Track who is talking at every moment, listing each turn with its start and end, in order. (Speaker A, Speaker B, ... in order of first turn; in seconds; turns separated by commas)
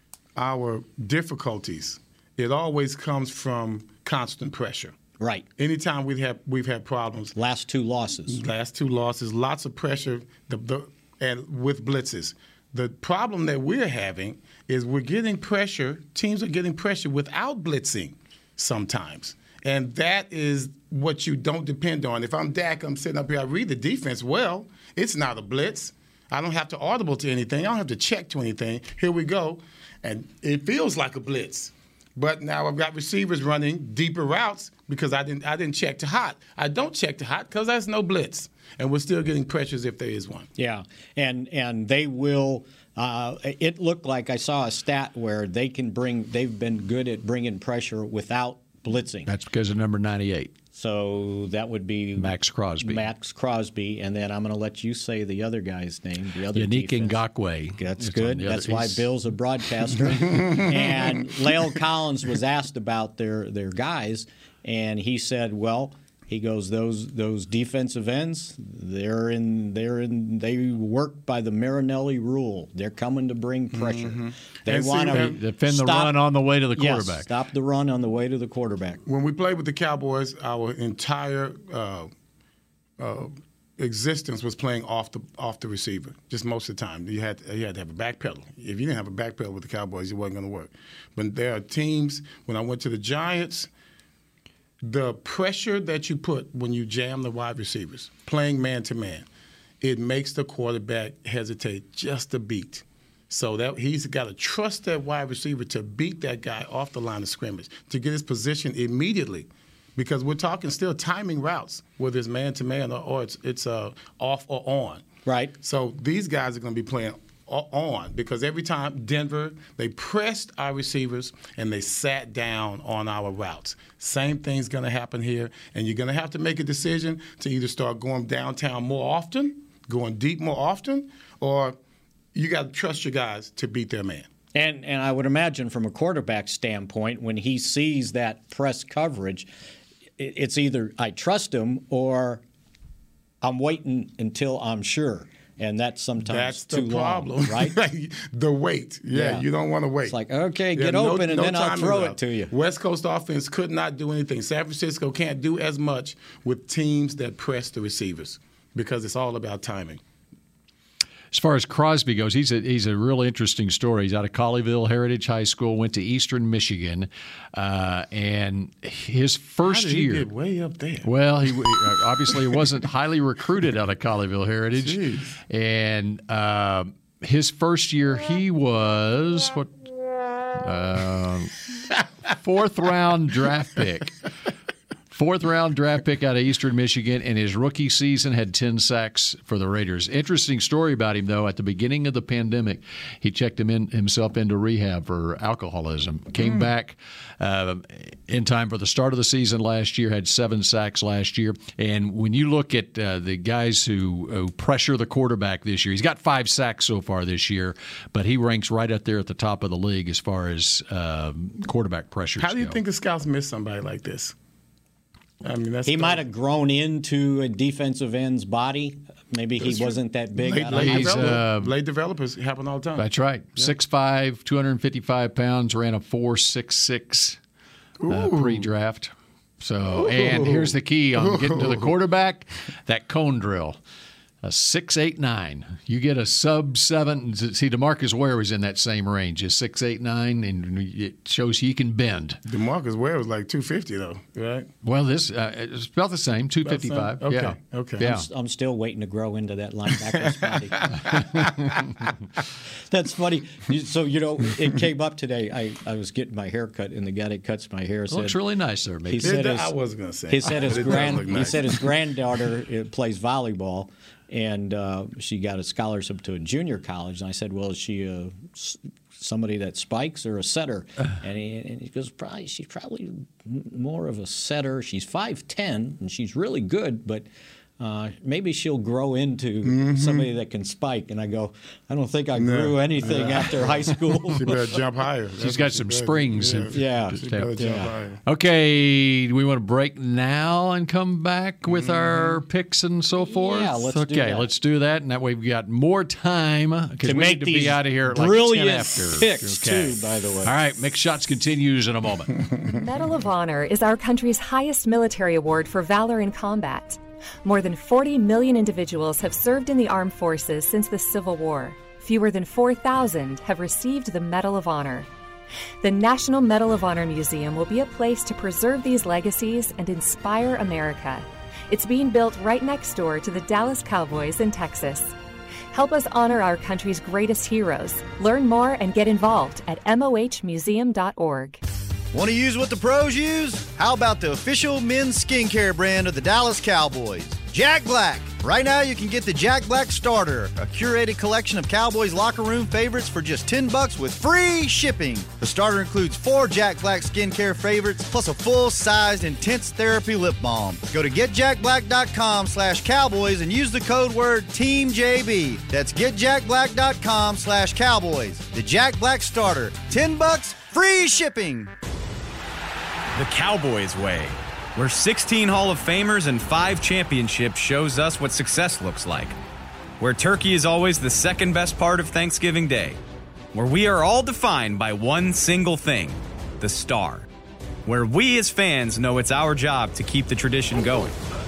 Speaker A: 0.3-4.9, Speaker B: 5.2-5.5, Speaker A: 5.6-7.4, Speaker B: 7.3-8.4, Speaker A: 8.3-40.5, Speaker B: 40.6-49.3, Speaker C: 49.3-50.5, Speaker B: 50.7-57.2, Speaker C: 52.2-53.1, Speaker C: 56.5-59.1, Speaker B: 57.8-76.2, Speaker A: 60.2-60.9, Speaker A: 73.7-75.4, Speaker C: 75.1-77.3, Speaker B: 76.7-79.0, Speaker A: 79.0-82.1, Speaker A: 83.0-93.7, Speaker A: 94.8-99.3, Speaker A: 99.8-115.0, Speaker B: 115.2-115.5, Speaker A: 115.6-131.8, Speaker A: 132.3-134.3, Speaker B: 134.5-139.5, Speaker B: 140.2-142.4, Speaker B: 143.4-147.8, Speaker A: 146.2-150.2, Speaker B: 149.1-149.4, Speaker B: 150.0-152.5, Speaker A: 150.7-160.0, Speaker C: 161.3-170.2, Speaker A: 169.6-171.8, Speaker C: 171.0-179.7, Speaker A: 174.8-175.4, Speaker C: 180.5-184.3, Speaker C: 185.1-212.8, Speaker A: 196.4-196.6, Speaker A: 212.4-214.3, Speaker A: 215.4-216.2, Speaker B: 215.8-221.4, Speaker A: 219.6-223.7, Speaker C: 220.7-221.7, Speaker C: 223.0-227.4, Speaker A: 228.0-228.7, Speaker C: 228.1-233.8, Speaker A: 229.9-231.9, Speaker C: 234.4-242.4, Speaker A: 242.4-244.7, Speaker C: 244.8-248.2, Speaker A: 246.6-248.0, Speaker B: 248.0-251.2, Speaker A: 250.8-251.1, Speaker B: 252.9-258.4, Speaker C: 258.1-259.4, Speaker B: 259.1-259.7, Speaker A: 259.2-261.9, Speaker B: 260.3-277.2, Speaker B: 277.8-284.5, Speaker A: 279.6-280.3, Speaker A: 282.4-288.2, Speaker C: 285.4-287.6, Speaker B: 286.7-287.9, Speaker C: 288.2-302.5, Speaker A: 291.7-292.4, Speaker B: 293.2-294.5, Speaker B: 297.0-300.5, Speaker D: 302.6-315.1, Speaker D: 315.8-325.1, Speaker D: 325.7-331.6, Speaker E: 332.1-361.7, Speaker F: 363.1-369.4, Speaker F: 370.0-373.0, Speaker F: 373.5-377.3, Speaker F: 377.9-381.1